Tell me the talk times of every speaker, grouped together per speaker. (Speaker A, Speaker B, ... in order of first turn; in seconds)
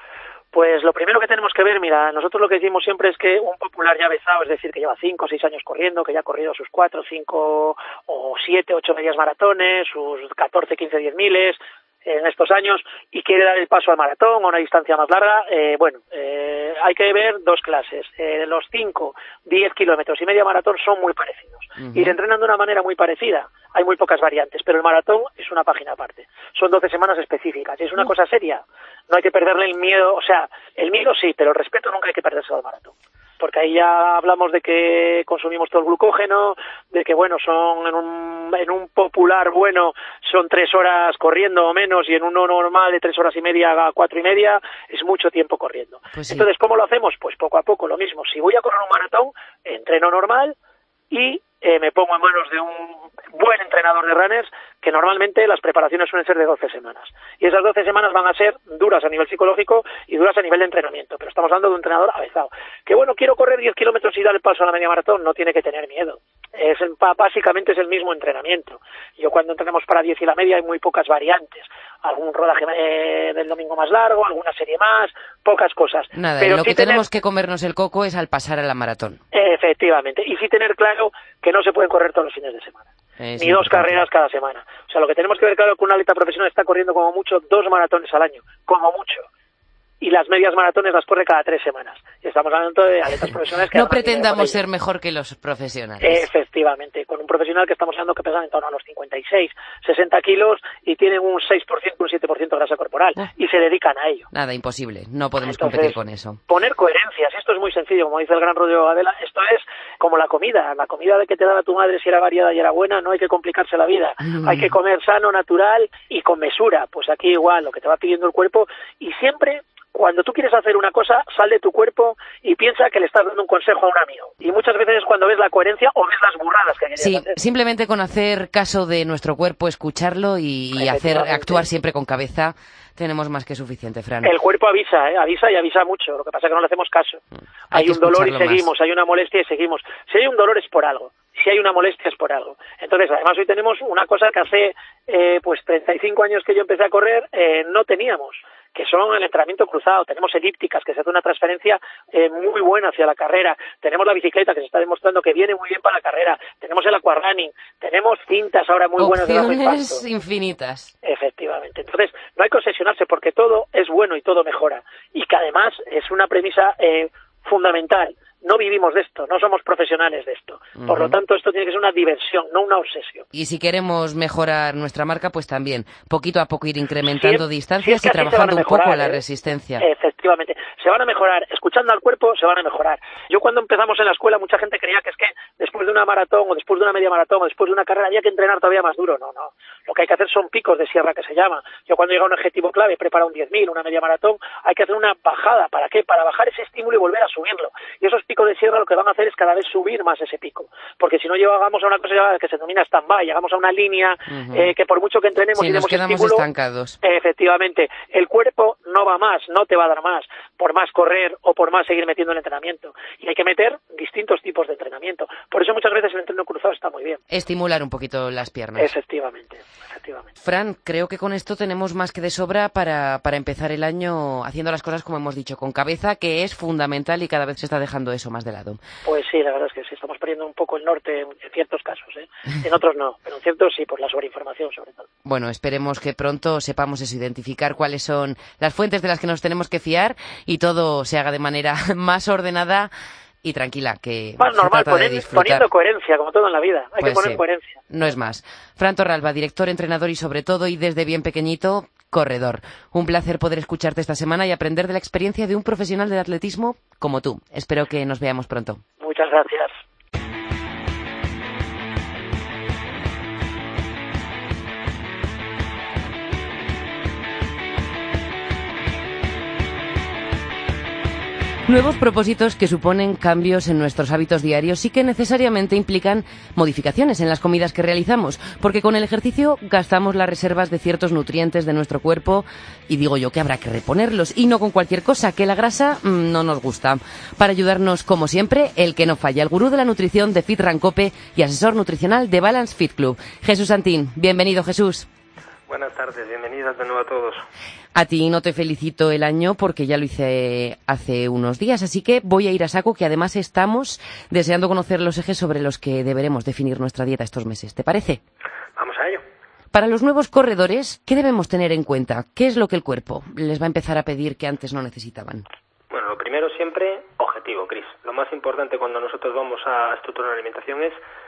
Speaker A: 0.5-50.5, 51.1-77.0, 79.3-82.8, 83.4-89.2, 90.0-94.6, 96.0-104.3, 105.4-127.4, 130.8-131.6, 134.2-160.0, 161.0-173.2, 177.2-179.2, 179.8-206.4, 207.0-217.2, 218.8-220.3, 229.0-235.1, 244.4-247.8, 259.0-259.7
Speaker B: 21.8-22.2, 46.1-46.5, 76.1-79.2, 83.2-84.0, 93.7-96.2, 104.3-106.4, 114.2-114.7, 127.0-134.3, 137.7-138.7, 159.0-160.9, 170.8-171.2, 173.3-179.8, 204.3-204.7, 205.5-207.0, 217.3-218.9, 220.4-228.8, 235.2-242.9, 243.4-245.7, 247.0-258.8, 271.6-295.1, 297.9-308.2, 309.7-315.4
Speaker C: 295.7-297.4, 308.8-309.2, 315.9-321.0